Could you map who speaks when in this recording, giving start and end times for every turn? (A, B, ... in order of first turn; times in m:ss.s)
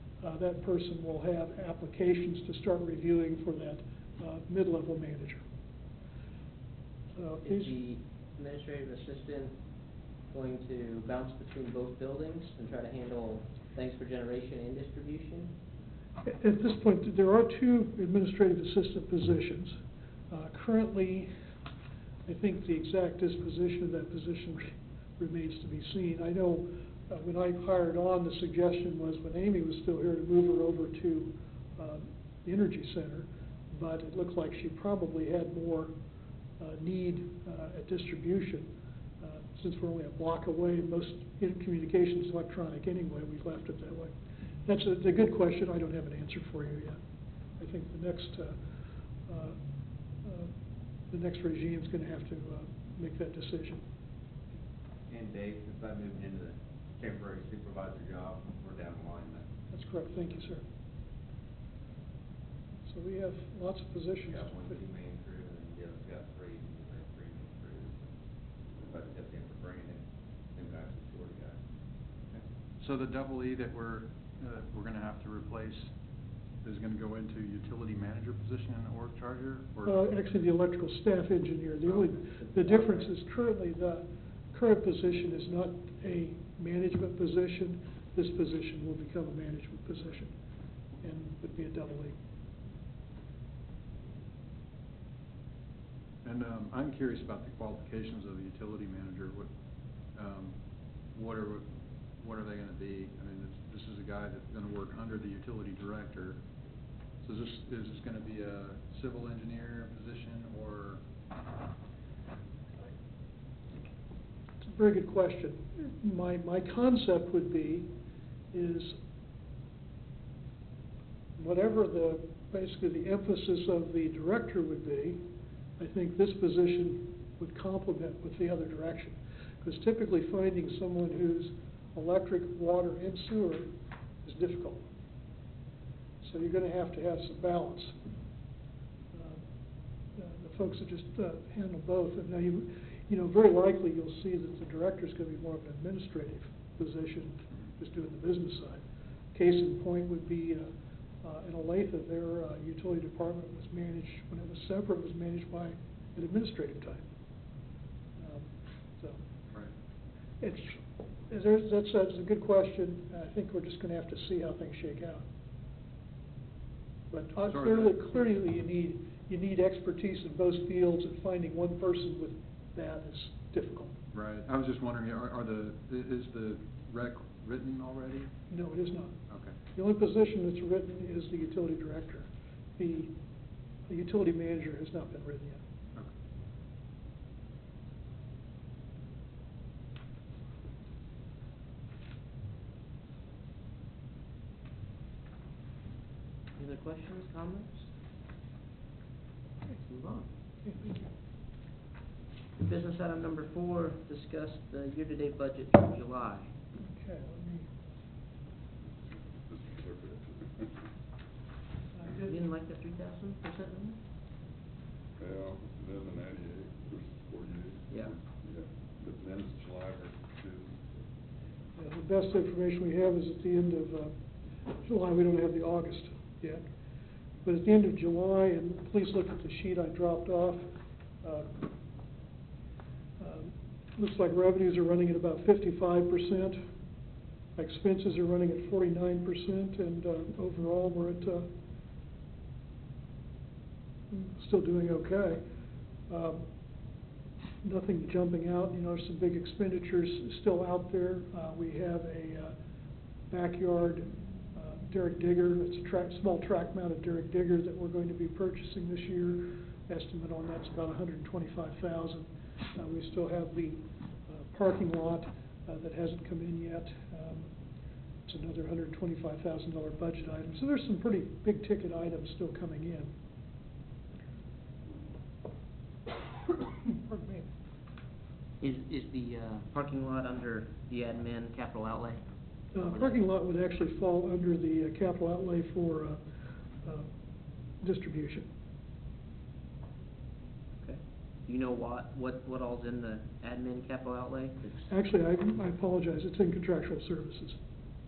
0:00.2-0:05.4 A
0:07.2-0:07.7 A
0:07.4-0:09.6 B
0:10.3-0:15.5 B
0:16.2-0:19.8 A
0:20.3-0:21.3 A
0:22.2-0:35.9 A
0:36.6-0:38.7 A
0:39.2-0:44.1 A
0:44.6-0:47.0 A
0:47.6-0:48.6 A
0:49.3-0:49.6 A
0:50.2-0:50.5 A
0:51.1-0:53.8 A
0:55.1-0:59.5 C
0:59.7-1:00.6 A
1:02.8-1:04.8 A
1:04.3-1:08.1 C
1:08.7-1:11.6 C
1:12.8-1:15.9 D
1:16.6-1:20.0 D
1:19.8-1:30.3 A
1:22.0-1:23.1 B
1:31.0-1:32.2 A
1:36.2-1:39.5 D
1:40.1-1:40.6 D
1:41.1-1:46.4 D
1:47.2-1:51.0 D
1:54.6-1:57.9 A
1:58.5-1:59.0 A
2:01.4-2:05.2 A
2:05.8-2:13.7 A
2:14.2-2:14.9 A
2:16.2-2:18.0 A
2:19.1-2:19.4 A
2:20.2-2:30.7 A
2:31.2-2:37.1 A
2:38.2-2:39.2 A
2:40.4-2:45.2 A
2:47.1-2:54.0 A
2:47.5-2:48.0 D
2:54.1-2:58.3 D
2:58.5-2:59.2 A
2:59.3-2:59.6 D
2:59.7-3:03.1 A
3:03.9-3:05.6 A
3:16.6-3:17.9 B
3:19.7-3:20.3 B
3:20.6-3:21.1 A
3:22.6-3:26.5 B
3:26.8-3:27.7 A
3:29.1-3:30.7 E
3:31.9-3:32.4 A
3:32.2-3:34.0 B
3:35.2-3:40.8 E
3:41.8-3:44.1 A
3:44.8-3:46.6 A
3:47.4-3:50.7 A
3:51.2-3:51.7 A
3:53.2-3:56.6 A
3:57.6-4:01.5 A
4:04.1-4:05.4 A
4:06.1-4:06.5 A
4:07.6-4:12.6 A
4:13.3-4:27.5 A
4:28.2-4:33.1 A
4:36.6-4:37.5 A
4:38.6-4:42.2 B
4:42.7-4:46.2 A
4:42.8-4:43.2 B
4:46.8-4:47.1 A
4:47.8-4:48.5 A
4:50.8-4:54.9 B
4:54.9-4:57.6 A